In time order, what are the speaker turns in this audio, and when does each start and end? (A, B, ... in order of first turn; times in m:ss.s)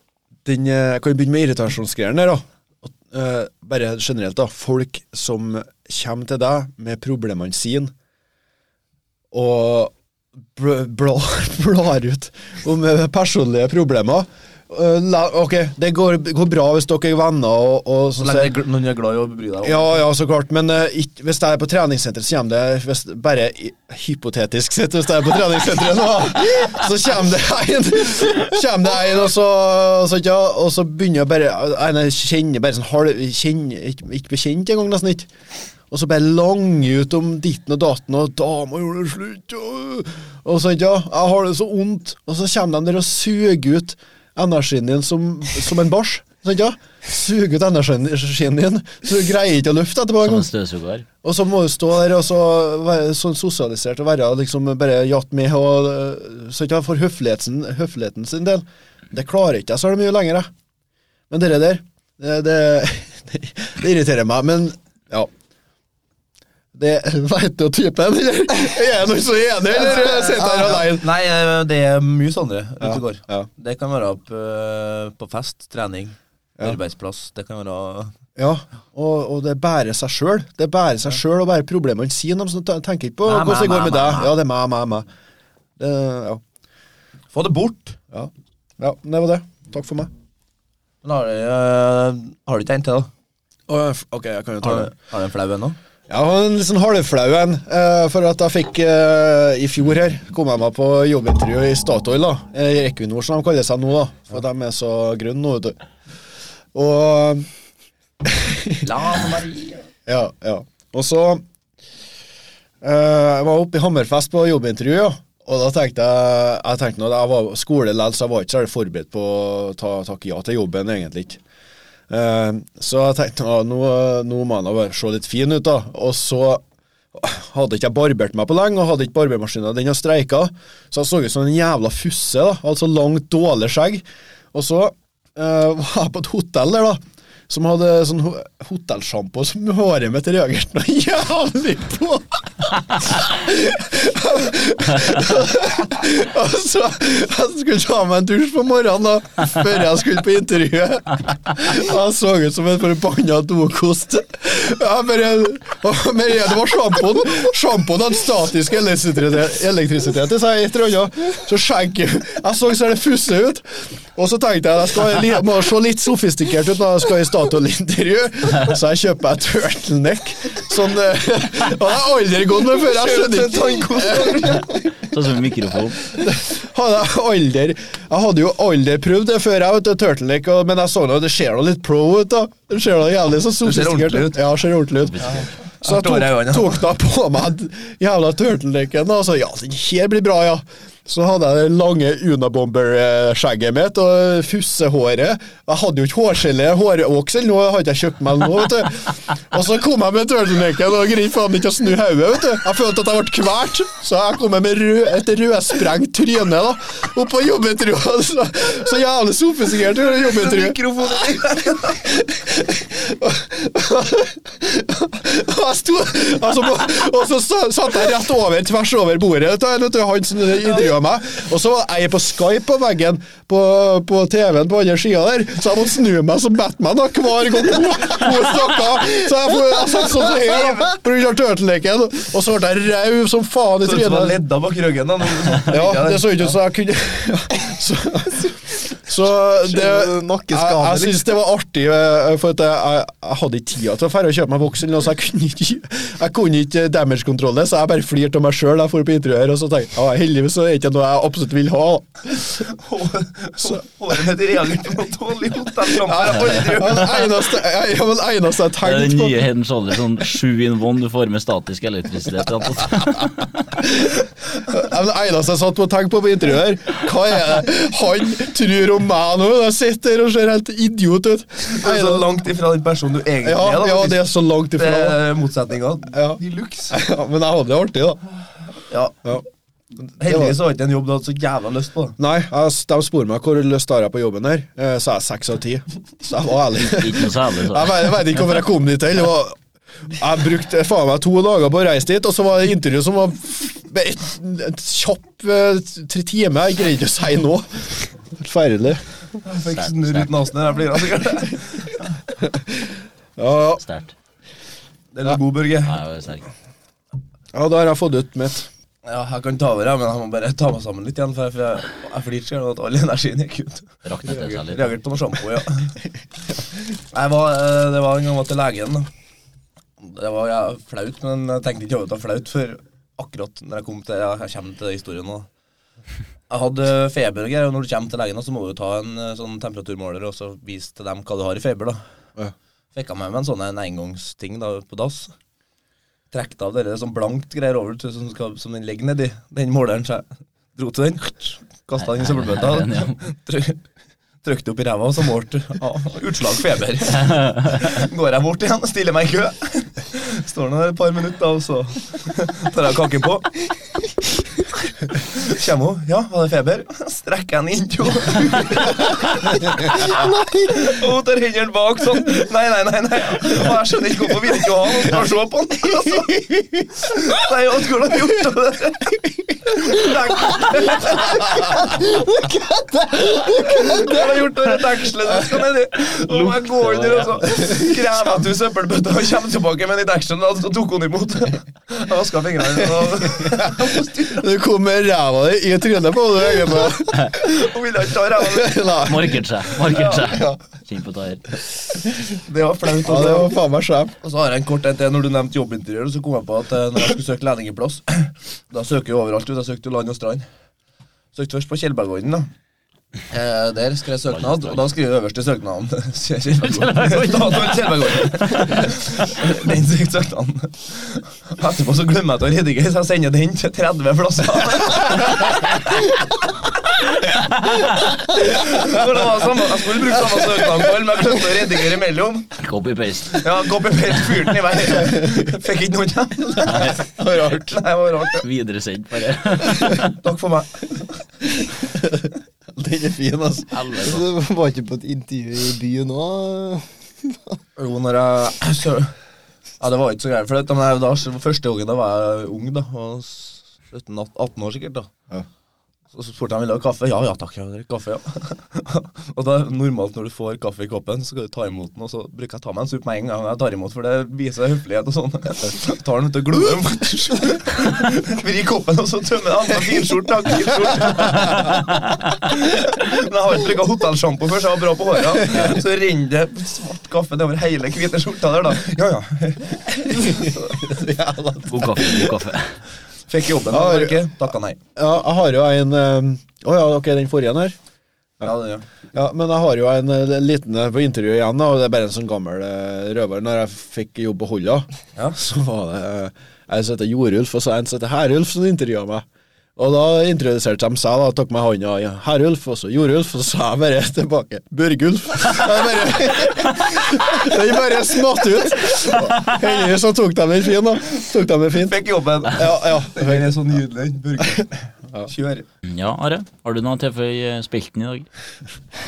0:00.4-0:07.9 A
0:09.3-0:09.9 A
0:10.6-0:18.6 A
0:18.2-0:20.0 B
0:19.6-0:35.3 A
0:35.9-0:50.5 A
0:50.2-0:51.1 C
0:51.2-1:00.5 A
1:01.3-1:05.3 A
1:06.7-1:11.1 A
1:10.0-1:18.1 B
1:12.8-1:13.5 A
1:18.4-1:25.1 A
1:23.2-1:24.3 B
1:25.8-1:26.4 A
1:27.3-1:28.0 B
1:28.1-1:30.1 A
1:31.0-1:33.1 B
1:33.7-1:34.9 A
1:34.6-1:35.8 B
1:36.1-1:45.8 A
1:46.7-1:47.5 A
1:48.2-1:48.9 A
1:48.8-1:49.8 B
1:50.1-1:51.4 A
1:52.8-2:01.4 A
2:02.1-2:54.7 A
2:52.7-2:54.7 B
2:55.0-2:56.0 C
2:56.1-3:30.8 A
3:03.6-3:04.4 B
3:05.1-3:05.5 C
3:05.2-3:06.8 B
3:30.1-3:32.1 B
3:32.0-3:54.4 A
3:53.8-3:56.6 B
3:55.7-4:12.7 A
3:59.6-4:01.3 D
4:12.7-4:17.2 B
4:16.0-4:19.5 A
4:18.8-4:23.8 C
4:23.8-4:32.3 A
4:31.7-4:37.0 B
4:33.4-4:35.2 A
4:36.1-4:38.2 A
4:38.9-4:39.2 B
4:40.2-4:42.2 B
4:40.2-4:40.6 A
4:42.2-4:49.6 A
4:46.8-4:48.1 C
4:50.1-4:59.0 A
4:59.4-5:02.0 B
4:59.7-5:00.3 C
5:02.4-5:03.8 A
5:03.8-5:04.1 C
5:05.1-5:06.0 B
5:05.8-5:06.5 C
5:07.5-5:08.7 A
5:09.0-5:16.0 B
5:14.0-5:14.9 C
5:17.0-5:19.1 B
5:20.0-5:25.5 B
5:26.5-5:32.0 B
5:32.9-5:35.3 B
5:36.3-5:43.8 B
5:42.0-5:43.2 C
5:44.4-5:53.6 B
5:47.2-5:47.9 C
5:55.2-6:06.5 B
6:00.1-6:00.9 D
6:07.0-6:11.4 B
6:11.6-6:14.2 D
6:13.5-6:24.5 B
6:16.2-6:17.4 C
6:23.3-6:27.6 A
6:27.4-6:28.9 B
6:28.4-6:29.4 A
6:29.0-6:31.4 C
6:29.8-6:30.5 B
6:32.3-6:33.6 B
6:33.0-6:34.1 A
6:34.2-6:40.5 B
6:41.3-6:42.5 B
6:43.3-6:55.8 B
6:44.3-6:44.8 C
6:46.6-6:48.9 C
6:57.6-6:58.1 C
6:58.0-7:02.6 B
7:02.6-7:03.5 C
7:03.3-7:08.5 B
7:06.7-7:07.0 C
7:08.4-7:10.2 C
7:09.8-7:11.2 B
7:11.8-7:13.8 A
7:13.7-7:14.2 C
7:14.0-7:17.6 D
7:17.8-7:19.1 B
7:19.8-7:25.1 B
7:26.1-7:41.8 B
7:42.5-7:50.9 B
7:50.2-7:52.3 A
7:51.7-7:52.8 C
7:53.3-7:54.8 B
7:53.7-7:54.3 A
7:55.0-7:57.8 A
7:58.4-7:58.8 B
7:59.1-8:23.6 A
8:21.8-8:25.7 B
8:24.6-8:25.3 A
8:25.9-8:28.3 C